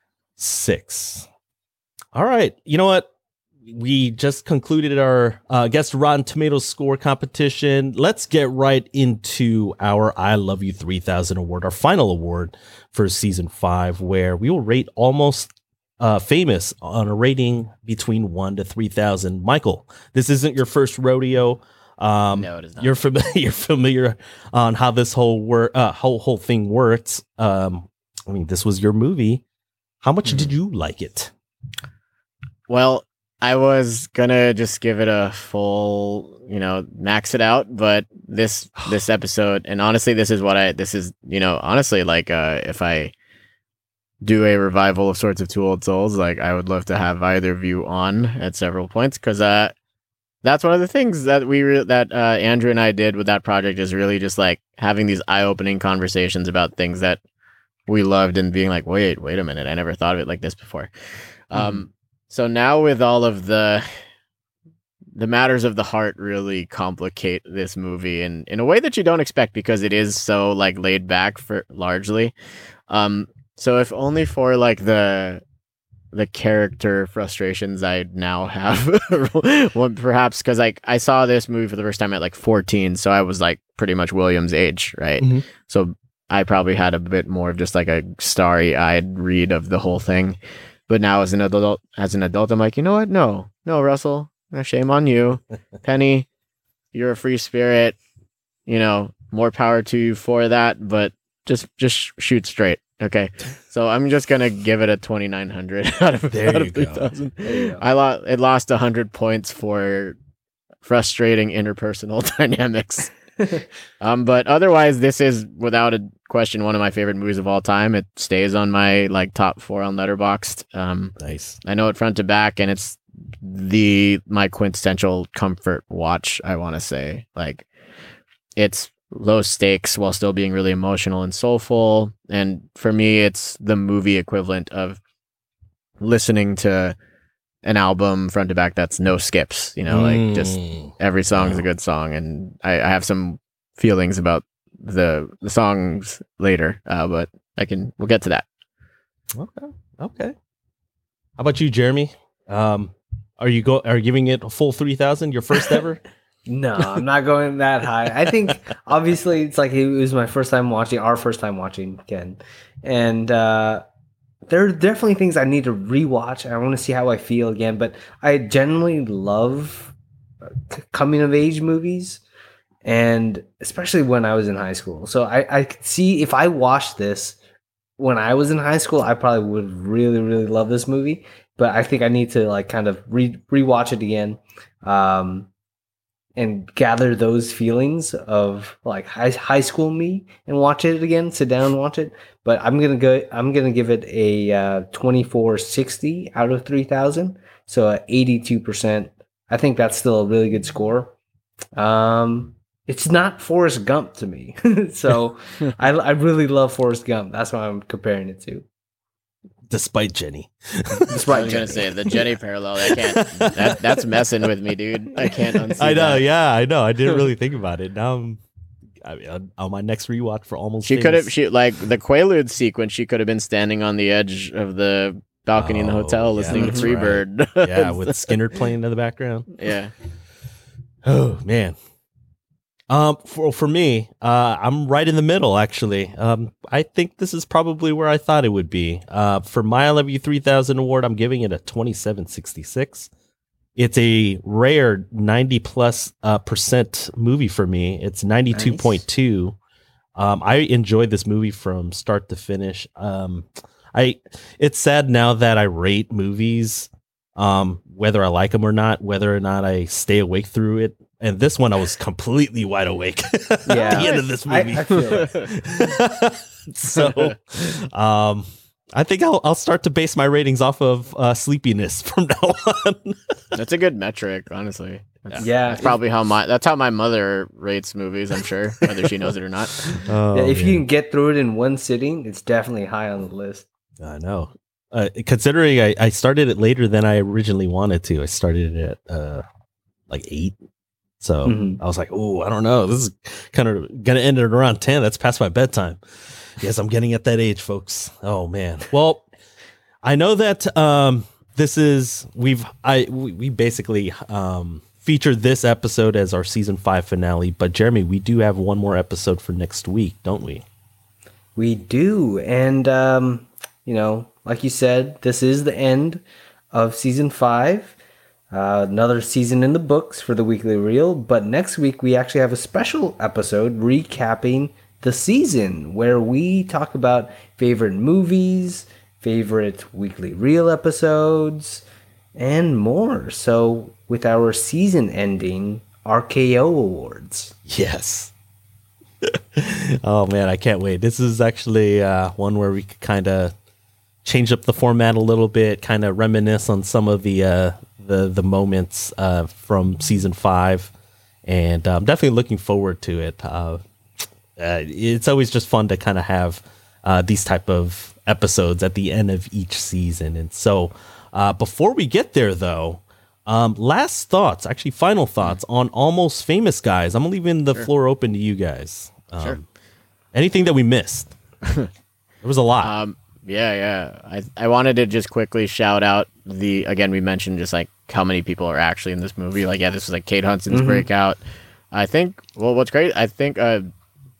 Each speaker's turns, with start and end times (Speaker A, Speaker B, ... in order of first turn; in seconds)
Speaker A: 0.4-1.3, 2.1-3.1, 3.6-29.4, 30.0-31.3, 61.5-61.8, 85.2-85.4, 106.3-107.1, 121.2-121.6, 139.9-141.7, 149.3-150.3, 151.4-156.0, 209.7-212.3, 212.8-214.5, 215.2-218.4, 219.0-221.3, 225.6-229.5, 231.1-231.8, 232.9-243.1, 243.8-249.6, 250.2-273.4, 279.9-280.9, 284.0-289.4, 290.1-290.6, 291.2-299.3, 300.0-310.6, 337.7-338.3, 339.2-343.5, 344.2-350.9, 351.4-353.8, 354.6-369.6, 370.3-371.4, 372.4-372.9
Speaker B: 22.3-22.9, 30.2-30.5, 32.7-43.1, 44.2-49.7, 50.4-57.2, 57.9-60.9, 61.5-63.9, 65.2-72.3, 72.9-75.4, 76.1-90.4, 90.9-96.3, 96.9-98.0, 98.7-110.2, 110.8-113.1, 114.0-127.7, 128.6-135.0, 136.0-137.0, 137.6-148.4, 211.3-216.3, 220.8-228.5, 229.6-229.9, 263.8-265.5, 266.9-267.3, 273.6-280.0, 372.8-381.4, 381.9-383.9
Speaker C: 107.4-107.8, 156.5-163.8, 164.5-172.2, 172.8-177.4, 178.0-185.5, 186.4-201.2, 201.8-208.7, 211.1-212.2, 226.5-226.9, 248.5-249.0, 263.6-265.4, 275.4-276.0, 280.3-283.7, 291.4-291.8, 311.6-318.0, 318.5-337.6, 380.7-381.1